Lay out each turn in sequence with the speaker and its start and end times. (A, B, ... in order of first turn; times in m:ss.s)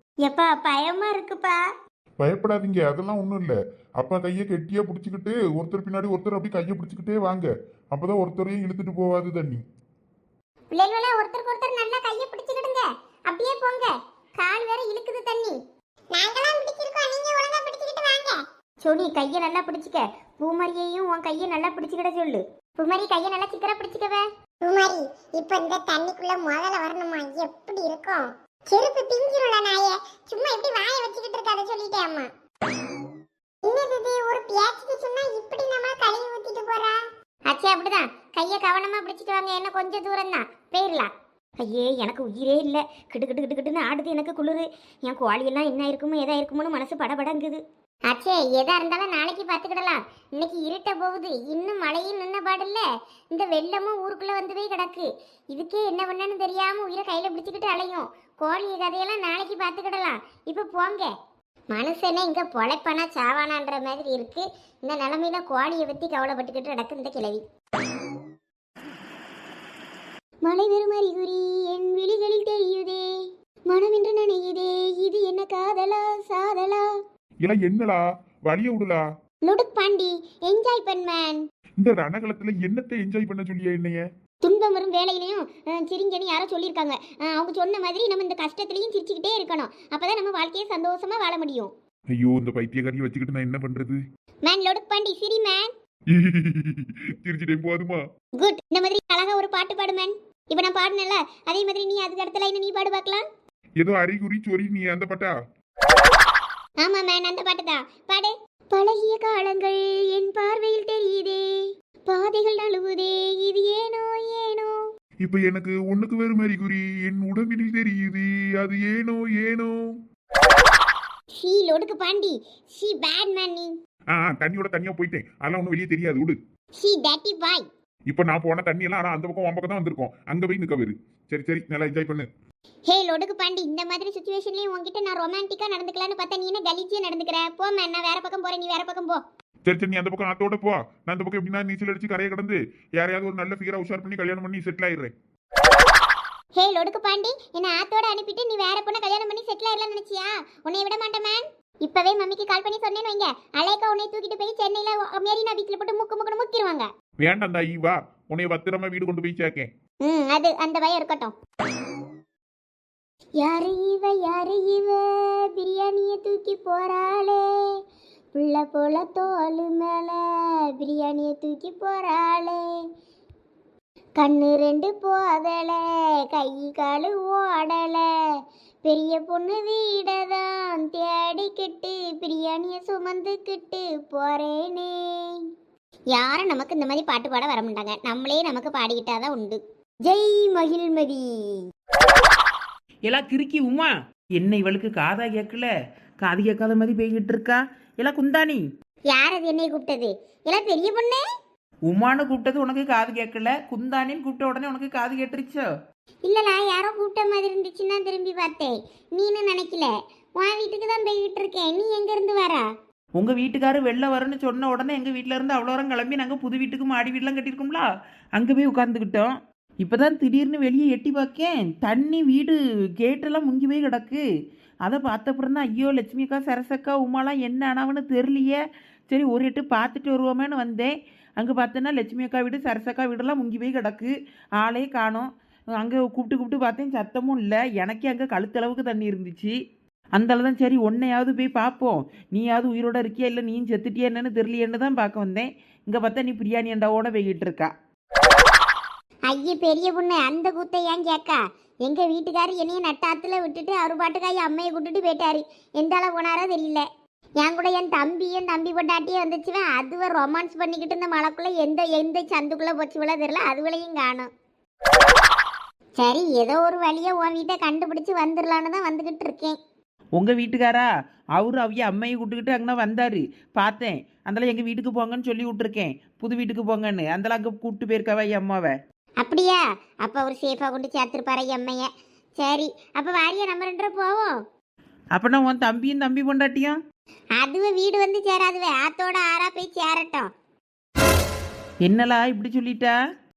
0:00.2-0:01.6 A
0:02.2-0:09.6 B
0:10.7-0:15.6 A
0:16.1-0:18.4 C
0:18.8-0:24.2 A
0:24.6-0:32.3 C
0:33.7-0:37.0 C
0:37.5-1:01.1 A
1:01.7-1:07.4 A
1:10.4-1:13.0 A
1:13.7-1:16.9 A
1:17.4-1:19.0 B
1:19.5-1:21.4 A
1:21.8-1:24.0 B
1:24.4-1:31.7 A
1:32.1-1:34.0 B
1:34.4-1:35.7 A
1:36.1-1:38.0 B
1:38.4-1:43.2 A
1:43.8-1:45.3 B
1:46.8-1:51.5 A
1:52.1-1:54.8 A
1:55.2-2:00.0 B
2:01.4-2:03.7 A
2:04.1-2:06.4 B
2:06.8-2:07.6 A
2:08.1-2:12.3 B
2:12.9-2:19.2 A
2:19.7-2:25.1 B
2:26.6-2:36.9 A
2:37.2-2:39.7 B
2:40.0-2:41.3 A
2:43.4-2:47.5 A
2:48.4-2:52.6 A
2:54.2-2:58.1 A
2:58.8-3:05.4 A
3:06.1-3:11.7 A
3:13.1-3:15.7 D
3:16.2-3:18.6 D
3:19.1-3:21.2 A
3:21.9-3:25.6 D
3:26.2-3:32.7 A
3:33.2-3:37.9 D
3:38.4-3:44.2 D
3:44.9-3:48.6 D
3:49.1-3:59.5 D
4:00.2-4:07.7 D
4:09.3-4:16.9 A
4:17.4-4:24.3 A
4:26.0-4:29.6 A
4:30.2-4:38.7 D
4:39.2-4:44.4 A
4:45.1-4:46.8 D
4:47.4-4:50.3 A
4:51.8-4:53.0 D